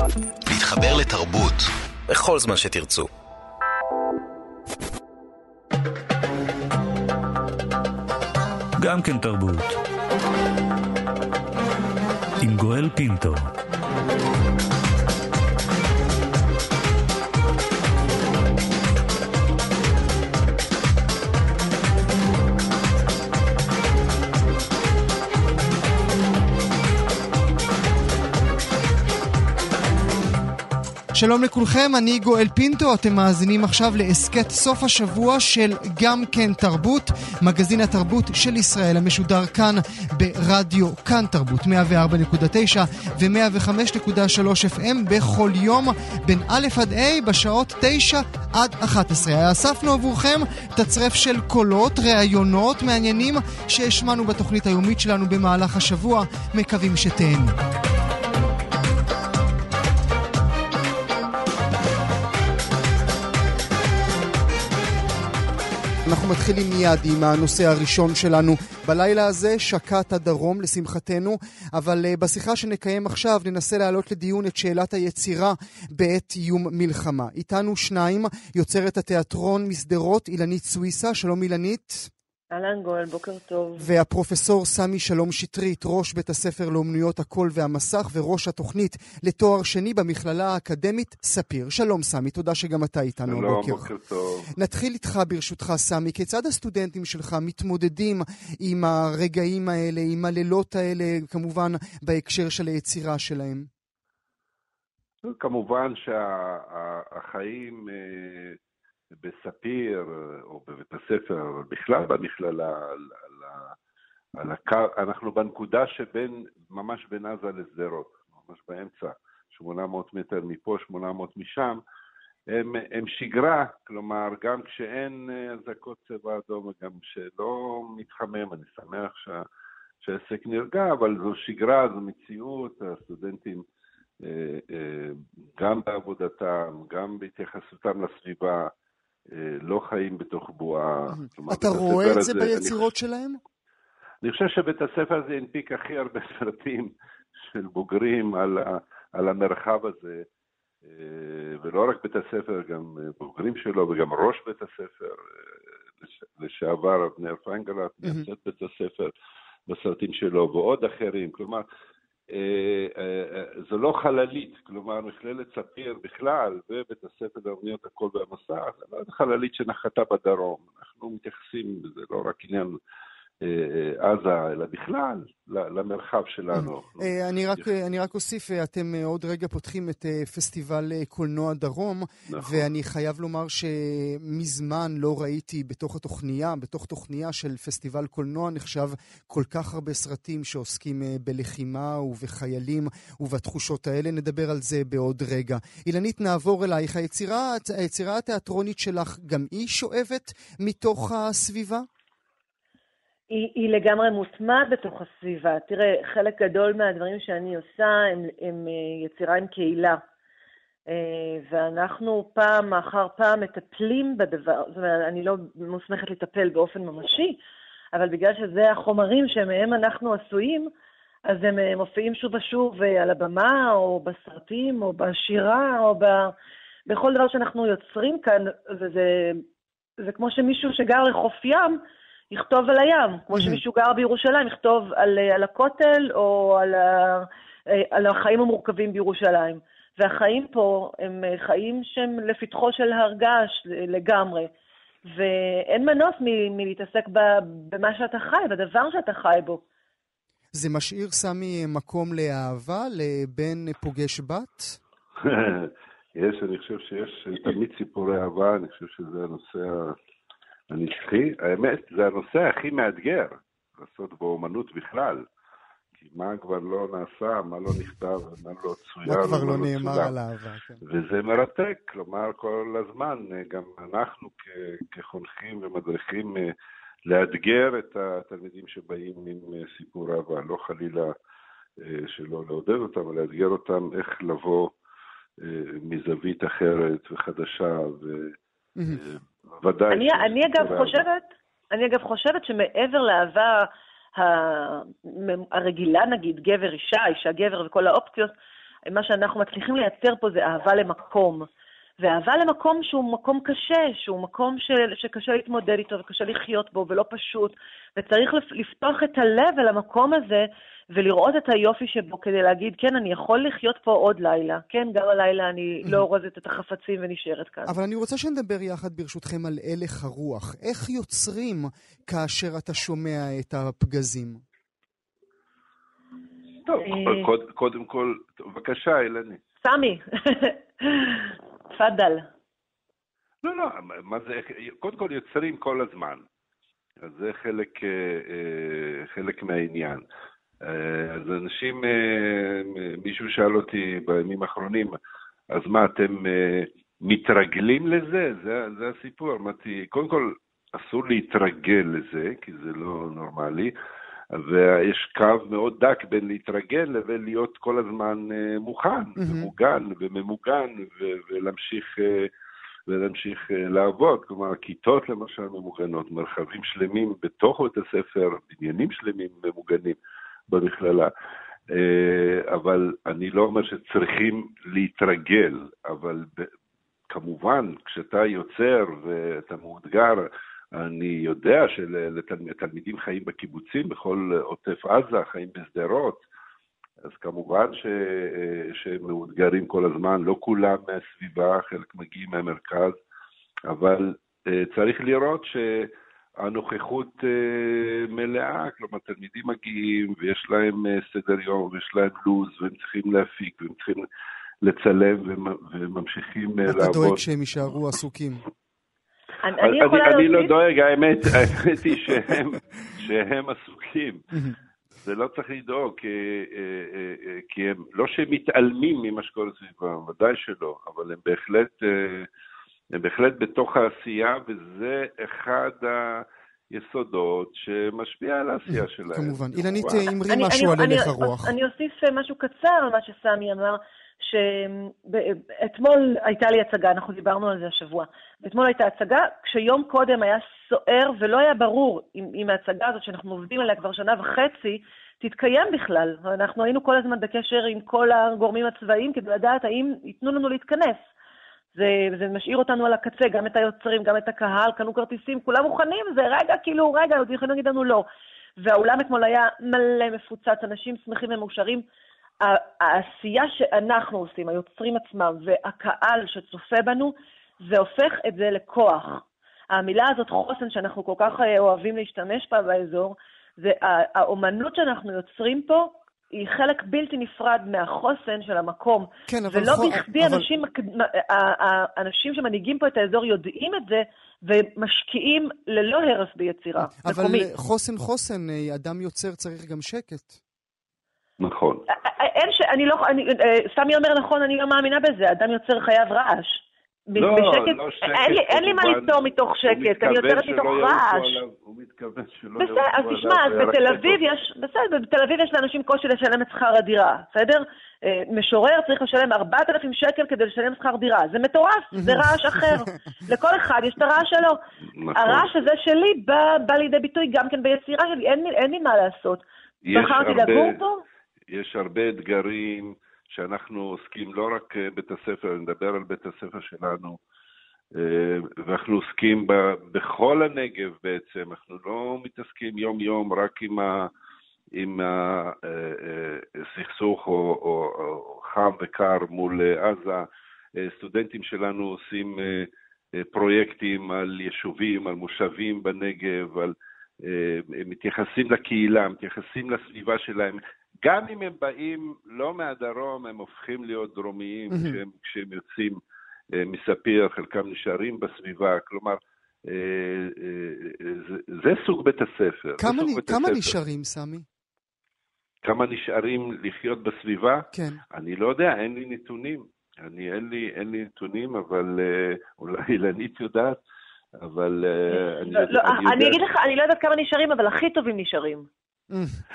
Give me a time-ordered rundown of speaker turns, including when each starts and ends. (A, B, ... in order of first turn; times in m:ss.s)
0:00.4-0:03.1 A
0:08.8-0:09.8 B
0:12.4-0:13.4 B
0:31.1-0:57.6 C
1:06.0-1:22.1 C
1:22.5-1:23.9 D
1:23.8-1:33.9 C
1:33.3-1:34.5 E
1:34.5-1:43.7 C
1:45.2-1:48.6 E
1:49.2-1:53.7 E
1:54.4-2:01.8 E
2:02.5-2:09.4 E
2:10.0-2:13.6 E
2:14.2-2:18.7 E
2:19.3-2:22.8 E
2:21.1-2:23.4 C
2:24.2-2:26.9 E
2:27.4-2:30.2 E
2:30.8-2:39.1 E
2:39.7-2:41.6 E
2:42.3-2:52.8 E
2:53.4-2:57.6 E
2:56.5-3:21.9 C
3:02.3-3:02.6 E
3:23.3-3:30.0 D
3:30.9-3:37.4 D
3:37.9-3:40.7 D
3:41.2-3:46.3 D
3:46.8-3:49.4 D
3:50.0-4:04.5 D
3:53.3-3:53.6 C
4:05.1-4:09.6 D
4:10.5-4:14.8 C
4:15.2-4:19.9 E
4:20.7-4:25.3 E
4:26.0-4:30.1 E
4:29.0-4:30.8 C
4:30.8-4:36.5 E
4:37.1-4:41.1 E
4:41.8-4:44.7 E
4:45.4-4:48.3 E
4:48.9-4:51.0 E
4:49.9-4:58.3 D
4:58.8-5:01.5 D
5:02.0-5:17.7 D
5:17.6-5:24.4 C
5:26.6-5:29.4 E
5:26.8-5:27.3 D
5:29.6-5:32.3 D
5:33.4-5:36.2 E
5:37.0-5:40.0 E
5:40.6-5:45.0 E
5:45.5-5:53.7 E
5:54.3-6:02.3 E
5:59.2-5:59.5 C
6:02.9-6:10.0 E
6:10.5-6:11.1 E
6:11.7-6:16.5 E
6:17.1-6:26.2 E
6:27.0-6:33.0 E
6:33.7-6:44.0 E
6:44.6-6:47.2 E
6:46.7-6:48.4 C
6:49.4-6:50.5 D
6:49.6-6:54.2 E
6:55.0-7:02.3 E
7:02.9-7:10.1 E
7:08.7-7:11.5 C
7:10.3-7:31.1 D
7:31.7-7:38.0 D
7:38.6-7:41.8 D
7:42.4-8:07.5 D
7:59.3-8:00.5 C
8:07.0-8:10.4 C
8:11.4-8:11.8 E
8:11.9-8:21.4 D
8:17.2-8:24.2 E
8:22.6-8:34.6 D
8:32.0-8:32.3 C
8:35.0-8:35.5 E
8:35.1-8:41.0 D
8:39.8-8:40.8 E
8:41.5-8:47.2 E
8:47.9-8:54.1 E
8:54.7-9:16.0 E
9:14.7-9:15.0 C
9:16.5-9:23.7 E
9:22.8-9:24.4 C
9:25.6-9:33.8 E
9:27.7-9:28.0 C
9:34.4-9:36.4 E
9:35.1-9:38.7 D
9:39.1-9:39.4 C